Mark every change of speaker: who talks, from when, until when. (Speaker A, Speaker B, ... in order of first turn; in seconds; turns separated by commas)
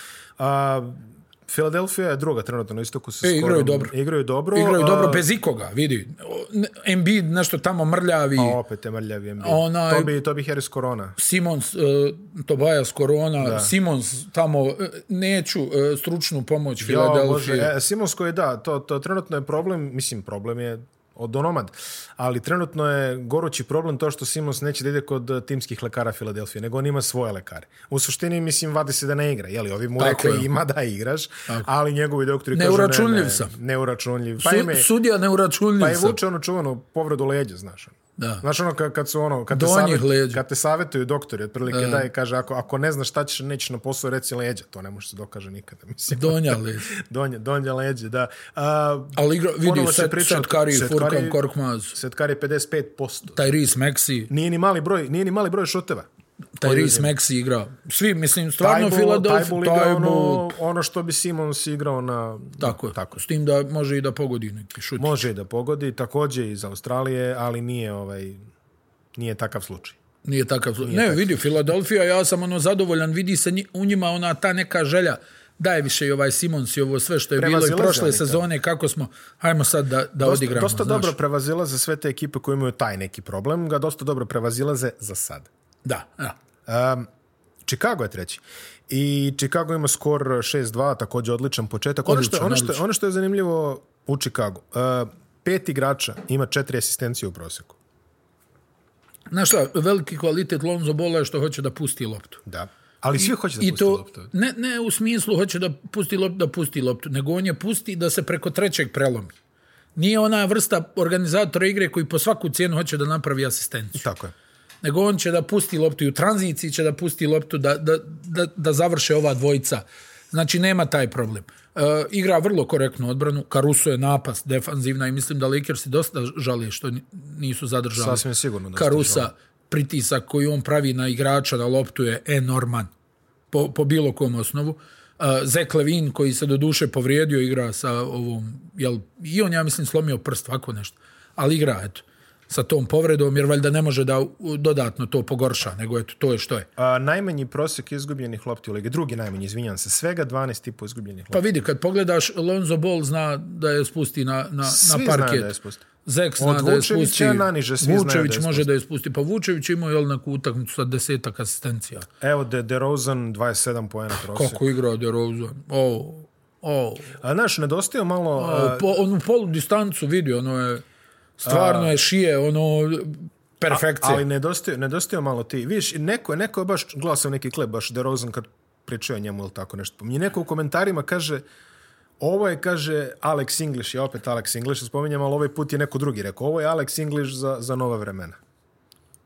Speaker A: 0.4-5.2, Speaker B: 3.2-3.9, Speaker B: 4.5-8.6, Speaker A: 8.3-11.2, Speaker B: 9.4-10.1, Speaker B: 11.2-17.7, Speaker A: 13.4-13.7, Speaker A: 16.8-34.9, Speaker B: 30.0-30.5, Speaker B: 32.5-33.5, Speaker B: 34.4-36.2, Speaker A: 35.8-51.4, Speaker B: 38.2-38.4, Speaker B: 39.5-40.4, Speaker B: 41.7-42.1, Speaker B: 46.1-46.9, Speaker B: 49.1-52.0, Speaker A: 51.9-53.5, Speaker B: 53.3-54.3, Speaker A: 54.3-56.1, Speaker B: 56.6-60.5, Speaker A: 56.6-57.1, Speaker A: 58.6-63.1, Speaker B: 62.6-65.2, Speaker A: 65.0-68.4, Speaker A: 69.1-70.0, Speaker B: 70.2-81.2, Speaker A: 70.8-71.4, Speaker A: 77.3-78.4, Speaker A: 80.2-85.5, Speaker B: 85.8-86.3, Speaker A: 86.7-87.1, Speaker A: 87.6-97.8, Speaker B: 92.0-92.8, Speaker B: 99.3-102.4, Speaker A: 102.5-104.3, Speaker B: 103.2-109.3, Speaker B: 110.0-114.0, Speaker A: 114.0-114.3, Speaker B: 114.8-128.2, Speaker A: 127.9-129.3, Speaker B: 128.7-132.9, Speaker B: 133.5-146.7, Speaker A: 146.8-151.4, Speaker B: 151.3-155.5, Speaker A: 154.6-155.8, Speaker B: 156.0-162.1, Speaker A: 156.4-158.7, Speaker A: 162.2-164.6, Speaker B: 164.2-167.2, Speaker A: 167.2-168.9, Speaker B: 168.4-170.8, Speaker B: 171.4-174.2, Speaker A: 171.4-171.9, Speaker A: 173.7-181.4, Speaker A: 182.2-188.4